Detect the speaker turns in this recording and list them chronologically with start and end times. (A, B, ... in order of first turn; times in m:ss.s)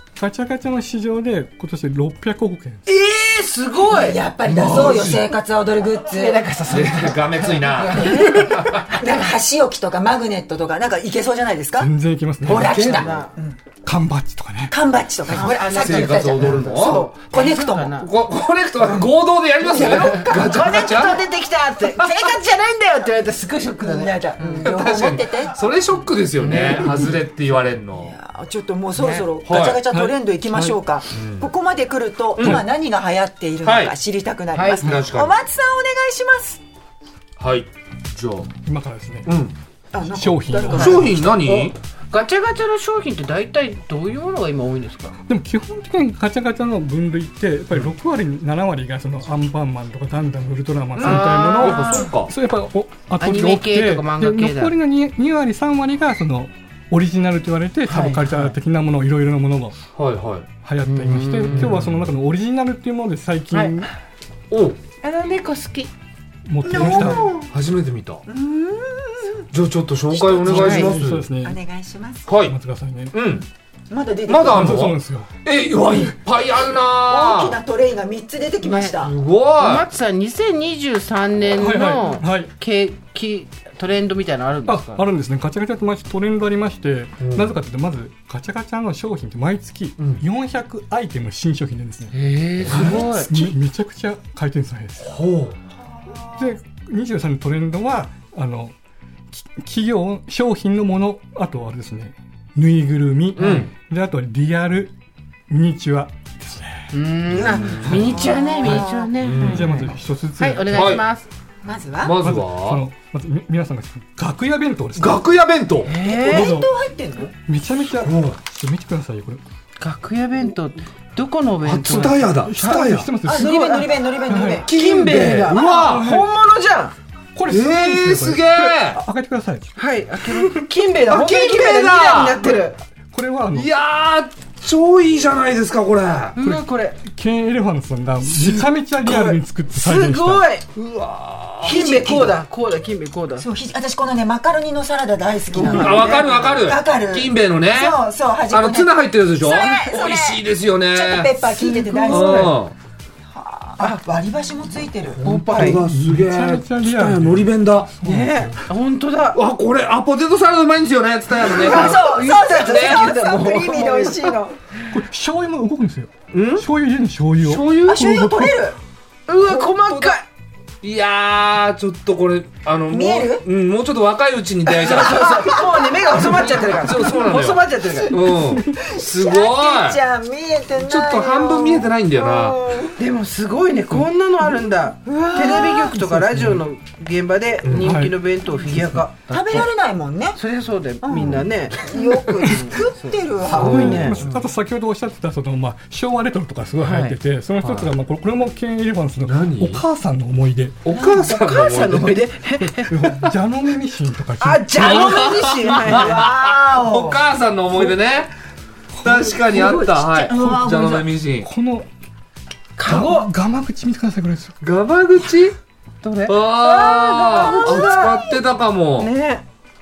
0:00.2-0:02.8 A
0:02.8-0:04.2 B
0:03.9-0:06.4 C
0:04.4-0:05.2 D
0:06.1-0:08.8 B
0:06.7-0:08.9 D
0:08.0-0:11.9 C
0:11.8-0:12.9 A
0:12.4-0:13.2 D
0:12.4-0:13.6 C
0:12.7-0:13.3 B
0:13.8-0:14.8 A
0:14.7-0:18.0 C
0:15.3-0:18.1 B
0:15.7-0:17.1 D
0:18.0-0:21.2 D
0:19.6-0:21.0 C
0:19.7-0:24.7 B
0:23.8-0:25.6 C
0:24.6-0:28.2 D
0:26.4-0:27.1 B
0:27.9-0:36.6 C
0:29.0-0:29.3 B
0:29.4-0:29.8 D
0:29.9-0:30.8 A
0:31.1-0:31.5 D
0:32.4-0:32.6 D
0:33.6-0:33.9 D
0:34.5-0:34.8 B
0:34.8-0:35.3 D
0:37.4-0:38.5 D
0:38.6-0:39.3 A
0:39.2-0:39.6 D
0:39.9-0:41.3 C
0:40.0-0:41.2 A
0:40.7-0:41.7 D
0:40.8-0:45.2 B
0:45.2-0:59.8 A
0:51.0-0:52.3 D
0:51.0-0:52.1 B
0:53.2-0:54.8 B
0:57.8-0:58.5 B
1:00.0-1:00.5 D
1:00.6-1:03.9 A
1:00.8-1:01.7 B
1:01.4-1:02.0 D
1:03.5-1:03.8 B
1:04.5-1:04.8 D
1:05.0-1:05.9 B
1:06.4-1:07.3 A
1:06.6-1:07.5 C
1:06.7-1:08.2 D
1:08.3-1:09.5 C
1:09.5-1:11.3 D
1:10.1-1:12.3 C
1:10.4-1:11.6 A
1:10.5-1:10.9 B
1:12.3-1:12.5 D
1:12.4-1:13.2 A
1:13.1-1:13.5 D
1:13.9-1:14.8 C
1:14.3-1:17.6 D
1:14.5-1:15.3 A
1:17.1-1:19.1 C
1:18.6-1:19.0 B
1:19.0-1:19.9 D
1:19.6-1:25.1 B
1:21.6-1:22.5 A
1:24.6-1:35.2 A
1:27.2-1:27.5 D
1:32.1-1:33.4 B
1:32.6-1:33.1 D
1:35.0-1:35.6 D
1:36.1-1:36.4 C
1:36.4-1:38.7 A
1:39.3-1:44.9 A
1:43.4-1:43.7 D
1:45.5-1:46.9 A
1:46.9-1:51.3 B
1:47.3-1:48.2 D
1:47.8-1:48.1 A
1:47.9-1:49.1 C
1:49.2-1:49.7 D
1:49.4-1:51.0 A
1:50.7-1:51.0 D
1:51.6-1:52.2 C
1:52.0-1:52.8 D
1:52.2-1:55.2 A
1:55.0-1:55.9 D
1:55.8-1:56.6 B
1:56.0-1:57.3 C
1:56.2-1:56.7 A
1:57.4-1:59.4 A
1:58.0-1:58.4 D
1:59.8-2:04.0 B
2:01.6-2:03.1 D
2:02.3-2:03.6 A
2:03.2-2:04.7 C
2:04.3-2:04.6 A
2:04.6-2:06.1 D
2:04.6-2:06.9 B
2:05.8-2:06.3 A
2:07.3-2:09.7 A
2:07.5-2:09.0 D
2:09.8-2:12.8 B
2:11.1-2:12.6 D
2:13.1-2:13.7 A
2:13.5-2:16.4 D
2:16.4-2:17.0 B
2:16.4-2:20.4 A
2:18.3-2:20.6 B
2:20.7-2:21.8 D
2:21.6-2:23.4 B
2:21.6-2:22.4 C
2:23.4-2:32.6 C
2:25.5-2:26.6 B
2:25.5-2:31.3 D
2:31.6-2:32.5 B
2:32.1-2:32.7 D
2:33.3-2:35.2 C
2:35.0-2:38.0 D
2:35.2-2:35.8 B
2:35.8-2:38.6 A
2:38.0-2:39.4 B
2:39.3-2:43.1 D
2:41.4-2:44.6 C
2:41.5-2:44.4 B
2:44.9-2:48.7 A
2:46.3-2:46.7 D
2:47.4-2:48.2 D
2:47.8-2:48.8 C
2:49.3-2:50.2 B
2:49.8-2:50.2 D
2:50.8-2:55.6 D
2:52.9-2:53.4 C
2:54.7-2:58.2 B
2:54.8-2:56.5 C
2:56.1-3:00.0 D
2:57.8-3:03.0 C
3:00.8-3:02.7 D
3:03.0-3:09.7 B
3:05.1-3:06.0 C
3:06.0-3:06.6 A
3:07.6-3:07.9 D
3:07.7-3:09.0 A
3:09.3-3:10.4 C
3:10.4-3:14.2 B
3:11.0-3:14.2 C
3:13.5-3:14.4 D
3:13.5-3:20.8 A
3:16.8-3:17.2 B
3:17.6-3:17.9 D
3:19.2-3:19.8 D
3:20.8-3:22.2 D
3:20.9-3:23.1 B
3:20.9-3:21.2 C
3:22.9-3:25.4 A
3:24.4-3:26.2 B
3:24.8-3:28.3 D
3:25.8-3:27.2 C
3:29.0-3:31.5 D
3:29.5-3:31.0 C
3:30.3-3:31.9 A
3:32.8-3:33.3 B
3:32.8-3:34.6 A
3:34.6-3:35.6 D
3:36.0-3:38.2 B
3:36.3-3:39.1 D
3:37.3-3:38.4 C
3:39.0-3:39.4 B